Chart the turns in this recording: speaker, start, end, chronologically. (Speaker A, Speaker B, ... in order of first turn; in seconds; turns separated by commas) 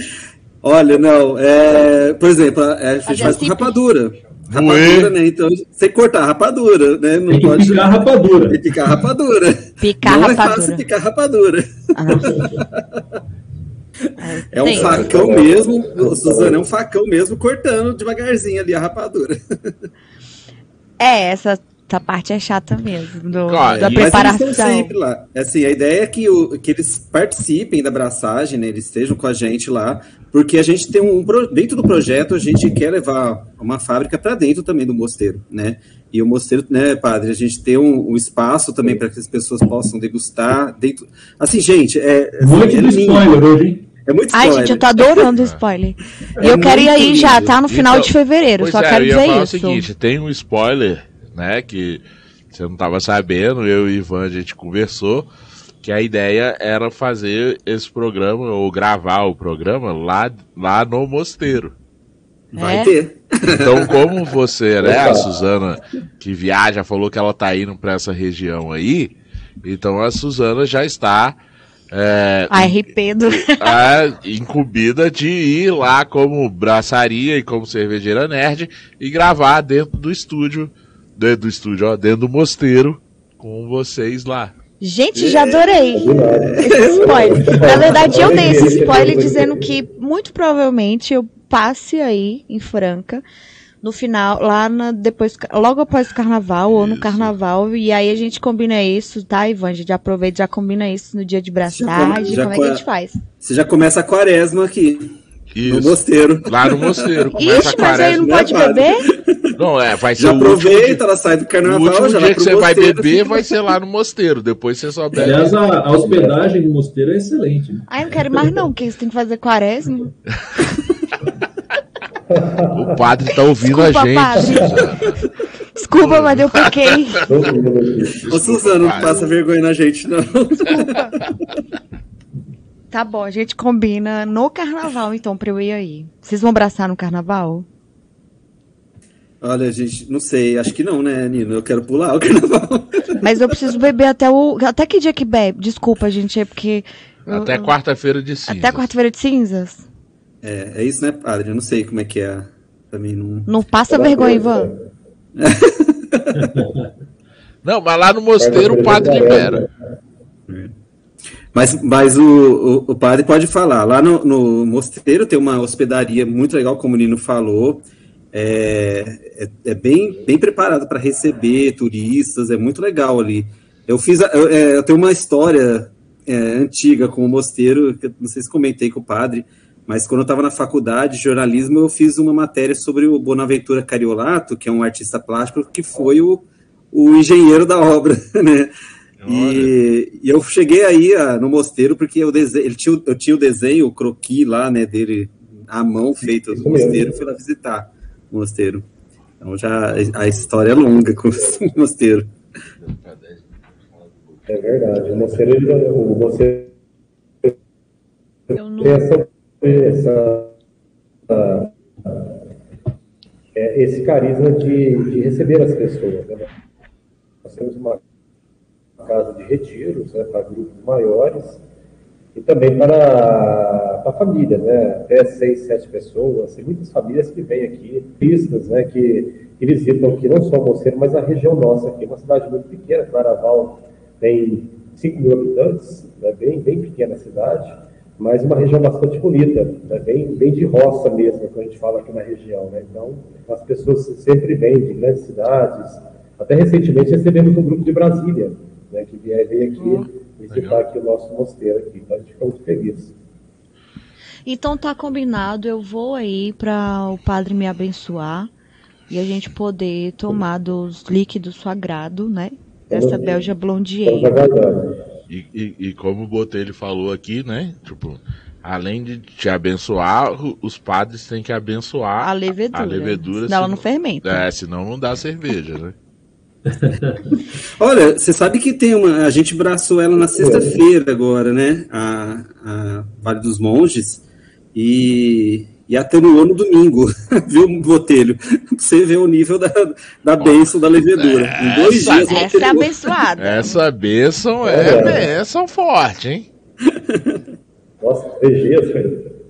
Speaker A: 0.6-13.0, Speaker B: 3.0-3.8, Speaker C: 4.5-5.1, Speaker D: 7.3-8.7, Speaker B: 9.8-10.8, Speaker B: 11.9-12.4, Speaker B: 14.2-15.0, Speaker A: 14.5-19.7, Speaker E: 14.7-16.7, Speaker B: 21.0-24.9, Speaker C: 23.5-24.4, Speaker A: 23.8-43.4, Speaker D: 42.4-43.9, Speaker A: 44.0-45.2, Speaker B: 44.3-49.9, Speaker D: 46.4-47.3, Speaker A: 46.4-47.5, Speaker C: 47.7-55.3, Speaker C: 55.8-61.7, Speaker A: 62.5-63.9, Speaker B: 62.6-62.9, Speaker C: 63.5-71.4, Speaker E: 64.8-65.3, Speaker C: 71.9-72.8, Speaker B: 72.5-73.8, Speaker C: 73.3-84.5, Speaker B: 84.8-93.2, Speaker A: 85.1-88.3, Speaker E: 85.9-89.7, Speaker B: 93.8-103.2, Speaker C: 96.7-97.3, Speaker A: 101.7-102.8, Speaker A: 103.4-109.5, Speaker C: 105.5-108.3, Speaker B: 107.3-109.0, Speaker C: 109.5-111.0, Speaker A: 110.2-113.5, Speaker C: 111.6-115.6, Speaker D: 115.1-117.8, Speaker B: 117.9-120.1, Speaker E: 122.3-122.9, Speaker C: 122.7-125.2, Speaker B: 123.6-124.9, Speaker B: 125.8-127.2, Speaker C: 125.9-126.9, Speaker E: 127.2-128.2, Speaker C: 128.2-129.3, Speaker A: 128.2-131.3, Speaker B: 130.7-131.1, Speaker B: 132.9-137.7, Speaker A: 139.4-143.2, Speaker B: 143.2-147.7, Speaker C: 147.2-148.9, Speaker B: 148.5-149.8, Speaker A: 150.4-153.5, Speaker B: 153.5-154.7, Speaker E: 153.9-154.8, Speaker A: 155.4-156.6, Speaker D: 156.5-156.9, Speaker C: 157.6-159.6, Speaker E: 158.4-159.7, Speaker A: 160.5-160.7, Speaker A: 161.5-188.7, Speaker C: 189.2-189.7, Speaker A: 189.3-198.9, Speaker E: 196.2-197.2, Speaker A: 199.4-202.3, Speaker C: 202.8-204.4, Speaker E: 204.5-206.7, Speaker E: 208.5-210.6, Speaker B: 208.5-209.0, Speaker E: 211.3-212.3, Speaker E: 213.5-216.5, Speaker E: 217.4-218.0, Speaker E: 219.0-221.6, Speaker E: 222.3-253.1, Speaker B: 249.8-250.1, Speaker C: 250.5-250.8, Speaker B: 254.4-258.5, Speaker B: 259.1-264.4, Speaker E: 262.9-263.4, Speaker E: 264.1-265.0, Speaker C: 265.3-275.9, Speaker B: 272.2-274.4, Speaker D: 276.7-277.2, Speaker A: 277.8-284.2, Speaker E: 280.3-280.8, Speaker A: 284.7-293.0, Speaker C: 290.4-292.8, Speaker B: 292.2-293.8, Speaker C: 293.4-296.5, Speaker E: 294.6-295.3, Speaker A: 296.8-297.4, Speaker E: 298.0-299.3